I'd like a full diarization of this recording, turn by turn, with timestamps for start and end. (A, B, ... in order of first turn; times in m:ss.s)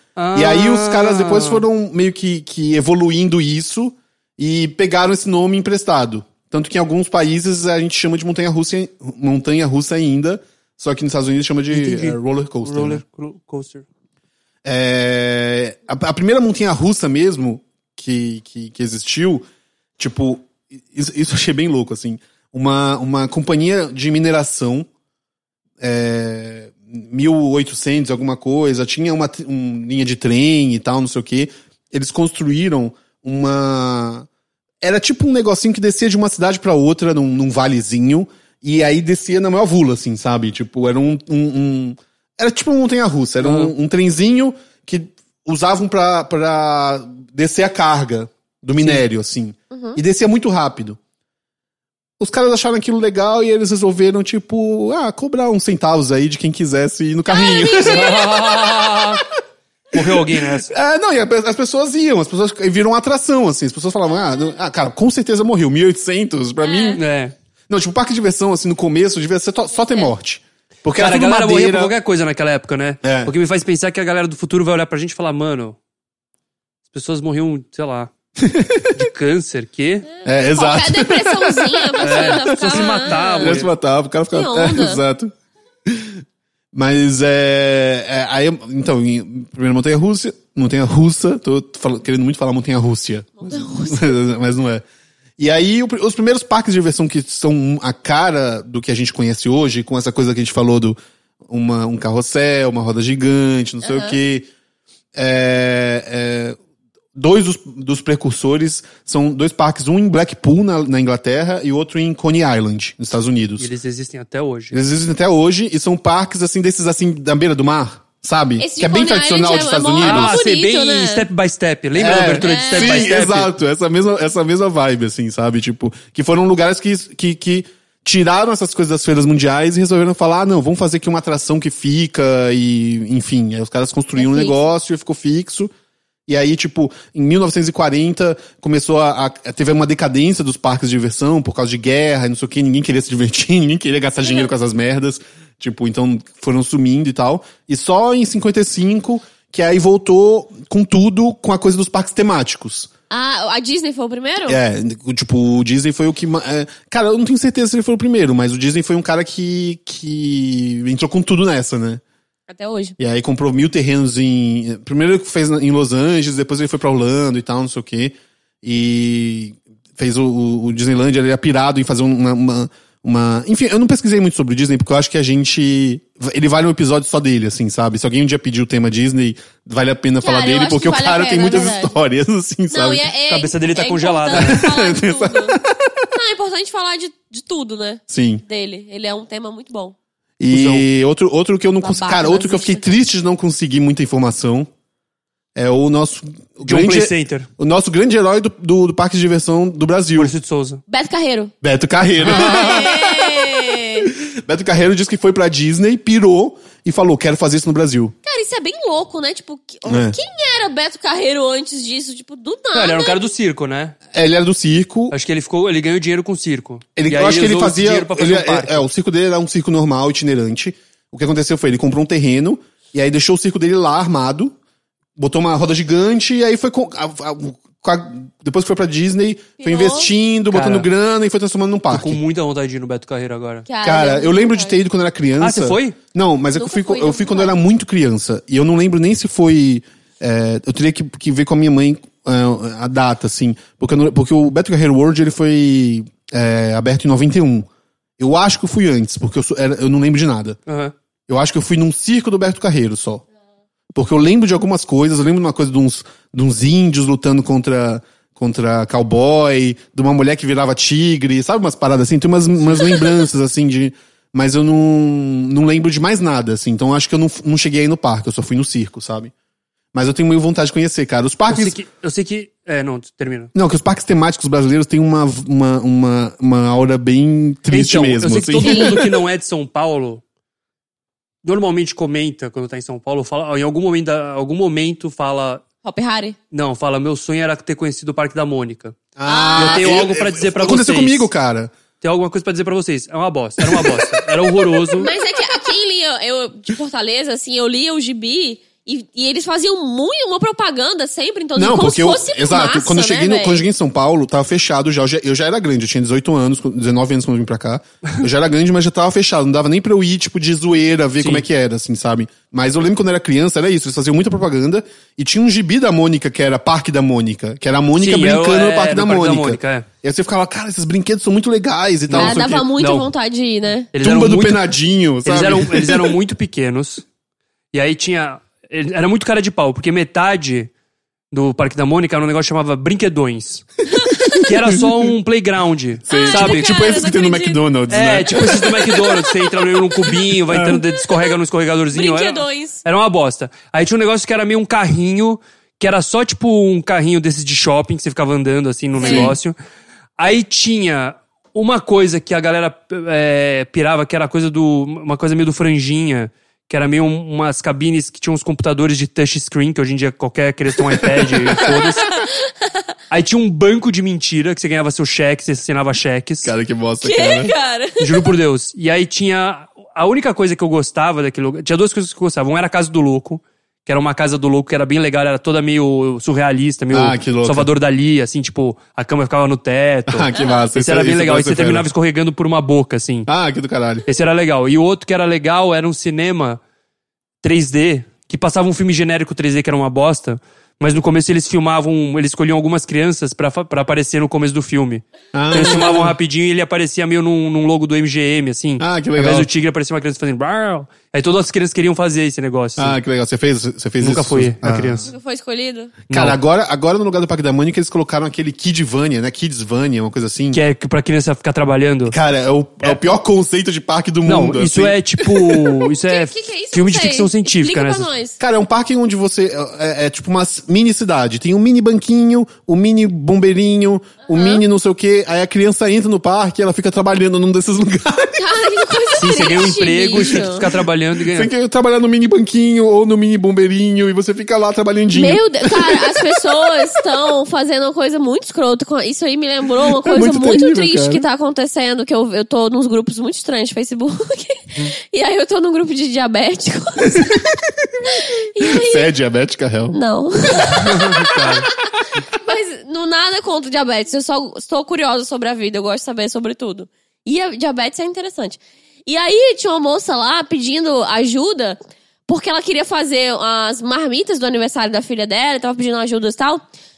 0:00.2-0:01.6 A
0:00.3-0:13.0 B
0:11.7-0:13.8 A
0:14.6-0:19.4 B
0:20.0-0:24.9 B
0:25.8-0:34.3 B
0:34.8-0:51.0 B
0:43.4-0:43.7 A
0:48.8-0:49.0 A
0:49.7-0:50.0 C
0:52.2-0:59.2 B
0:57.3-0:58.3 C
0:57.8-0:59.2 A
0:59.9-1:00.7 A
0:59.9-1:07.0 B
1:06.6-1:07.0 C
1:07.0-1:07.3 A
1:07.7-1:11.9 B
1:11.0-1:15.8 A
1:13.0-1:13.3 B
1:16.9-1:18.1 A
1:18.4-1:19.0 B
1:18.9-1:20.0 A
1:20.1-1:23.6 C
1:20.2-1:25.3 B
1:22.0-1:23.7 A
1:24.3-1:25.0 C
1:25.8-1:26.2 B
1:26.7-1:34.8 B
1:33.4-1:34.1 C
1:35.4-1:44.5 B
1:43.8-1:44.2 C
1:45.1-1:46.6 B
1:47.2-1:53.7 B
1:53.6-1:54.7 A
1:54.7-2:00.3 B
1:58.6-2:01.2 C
2:00.0-2:03.5 A
2:02.0-2:15.7 B
2:02.4-2:03.1 C
2:14.2-2:14.6 C
2:16.3-2:32.9 B
2:33.1-2:34.6 C
2:34.5-2:42.0 B
2:42.5-2:43.0 C
2:43.0-3:03.1 B
3:00.2-3:02.0 C
3:02.7-3:05.6 C
3:03.3-3:04.7 A
3:04.3-3:06.1 B
3:06.1-3:10.0 C
3:08.1-3:08.4 B
3:10.4-3:14.7 B
3:10.5-3:10.8 A
3:11.8-3:12.8 C
3:15.5-3:20.3 B
3:16.6-3:17.5 A
3:20.2-3:20.8 A
3:20.9-3:21.5 C
3:21.6-3:28.1 B
3:22.2-3:22.8 A
3:22.3-3:24.1 C
3:28.2-3:33.2 C
3:29.9-3:30.2 B
3:32.7-3:33.9 A
3:34.1-3:35.1 B
3:35.1-3:38.8 A
3:37.0-3:44.5 B
3:45.2-3:52.2 B
3:49.6-3:50.1 C
3:50.5-3:50.9 A
3:51.9-3:53.7 A
3:53.6-3:54.8 C
3:53.8-4:07.7 B
3:55.4-3:56.0 A
3:56.5-3:57.5 C
4:08.2-4:10.6 B
4:10.7-4:10.9 A
4:11.3-4:13.2 B
4:13.9-4:29.3 B
4:29.9-4:31.8 B
4:31.5-4:33.5 A
4:33.5-4:39.1 B
4:37.7-4:40.2 A
4:38.6-4:39.0 C
4:41.4-4:45.6 A
4:45.8-4:46.4 C
4:46.5-4:49.0 A
4:49.2-4:51.7 B
4:49.2-4:50.0 C
4:49.5-4:51.3 A
4:52.0-4:55.1 A
4:53.6-4:54.2 B
4:55.0-5:03.6 C
5:01.6-5:22.7 B
5:11.2-5:11.4 A
5:18.0-5:19.9 A
5:22.1-5:23.1 A
5:22.1-5:23.9 C
5:23.9-5:24.7 A
5:24.0-5:26.2 B
5:25.2-5:27.0 A
5:27.7-5:30.7 A
5:31.3-5:33.7 A
5:34.1-5:34.9 B
5:34.1-5:34.4 C
5:34.3-5:36.8 A
5:36.1-5:39.2 B
5:36.1-5:37.6 C
5:37.9-5:49.5 A
5:40.5-5:40.8 B
5:41.9-5:42.8 C
5:49.0-5:49.3 C
5:49.0-5:49.4 B
5:50.2-6:02.1 A
6:00.8-6:02.0 B
6:03.1-6:06.5 A
6:06.4-6:07.5 B
6:07.0-6:08.3 C
6:08.0-6:23.3 A
6:16.9-6:17.7 B
6:20.1-6:21.9 B
6:20.3-6:20.7 C
6:23.3-6:24.1 B
6:24.1-6:26.6 A
6:27.4-6:43.0 A
6:35.3-6:36.2 B
6:38.8-6:39.5 B
6:42.8-6:45.1 B
6:44.0-6:45.1 A
6:45.0-6:45.9 C
6:46.1-6:46.4 A
6:46.1-6:50.6 B
6:50.5-6:52.2 A
6:52.1-6:55.8 B
6:54.2-6:58.1 A
6:56.0-6:58.4 C
6:58.4-7:08.4 B
7:04.3-7:04.6 C
7:08.4-7:10.6 C
7:09.2-7:11.5 A
7:11.2-7:16.4 B
7:15.1-7:27.4 C
7:19.8-7:21.2 B
7:27.0-7:28.0 B
7:28.0-7:29.1 C
7:28.6-7:30.0 B
7:29.9-7:31.4 C
7:30.6-7:31.7 A
7:32.2-7:46.6 C